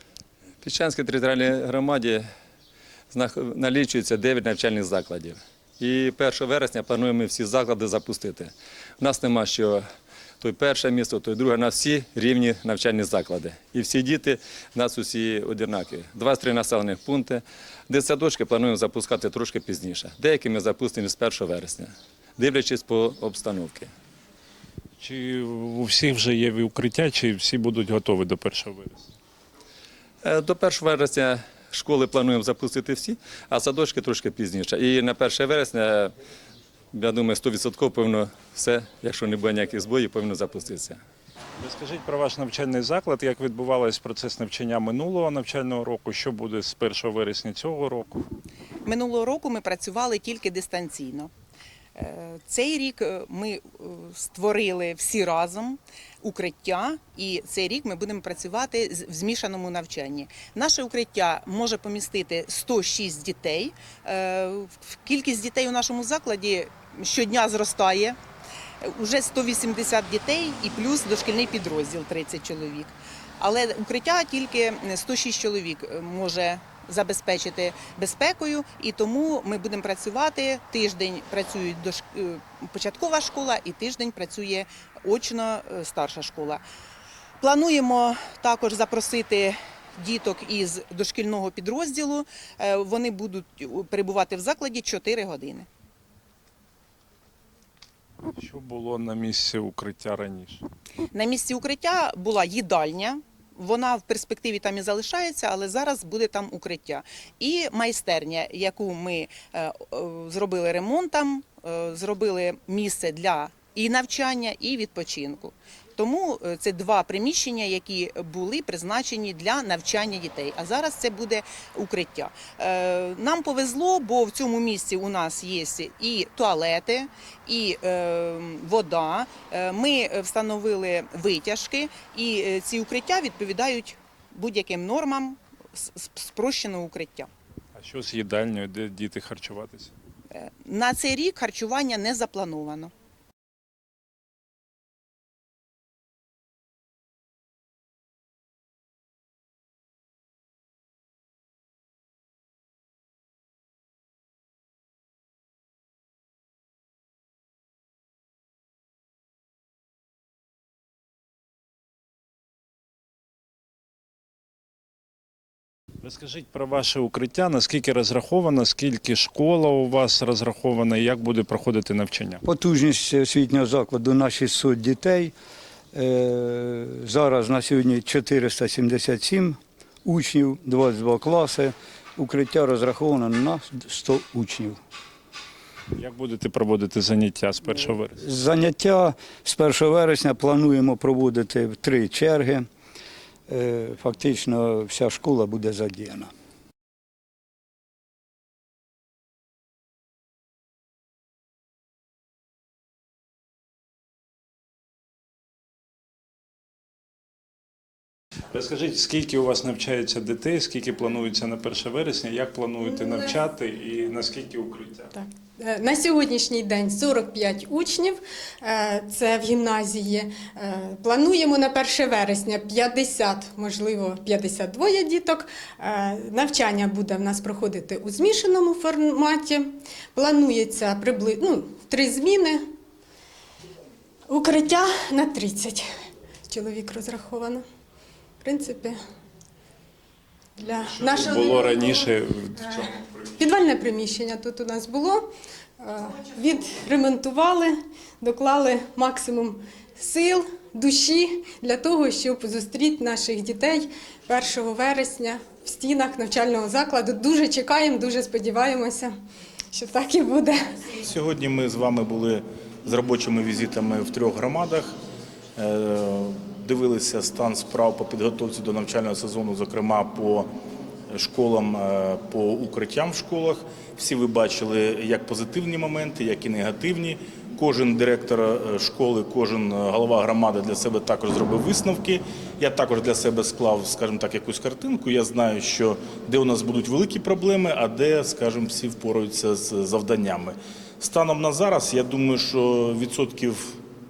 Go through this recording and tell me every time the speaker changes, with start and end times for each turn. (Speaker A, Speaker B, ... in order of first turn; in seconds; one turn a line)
Speaker A: 0.6-2.2
Speaker A: 3.1-9.8
Speaker A: 10.4-23.9
Speaker B: 25.0-29.1
Speaker A: 30.2-36.1
Speaker A: 36.9-41.0
Speaker B: 41.6-48.2
Speaker C: 48.8-51.3
Speaker C: 51.9-68.2
Speaker C: 68.8-86.6
Speaker C: 87.4-95.7
Speaker B: 98.3-100.6
Speaker C: 101.1-137.3
Speaker B: 137.7-139.9
Speaker C: 140.3-142.9
Speaker B: 166.0-172.4
Speaker D: 172.4-175.3
Speaker D: 175.9-184.8
Speaker B: 185.9-188.2
Speaker D: 188.2-192.7
Speaker D: 193.5-196.3
Speaker B: 208.5-215.1
Speaker E: 215.1-232.7
Speaker E: 234.3-235.9
Speaker E: 236.5-237.7
Speaker E: 238.4-239.0
Speaker E: 240.6-241.7
Speaker B: 240.8-243.4
Speaker E: 243.4-259.1
Speaker E: 259.7-260.8
Speaker F: 261.0-264.9
Speaker F: 265.6-270.5
Speaker F: 271.1-293.8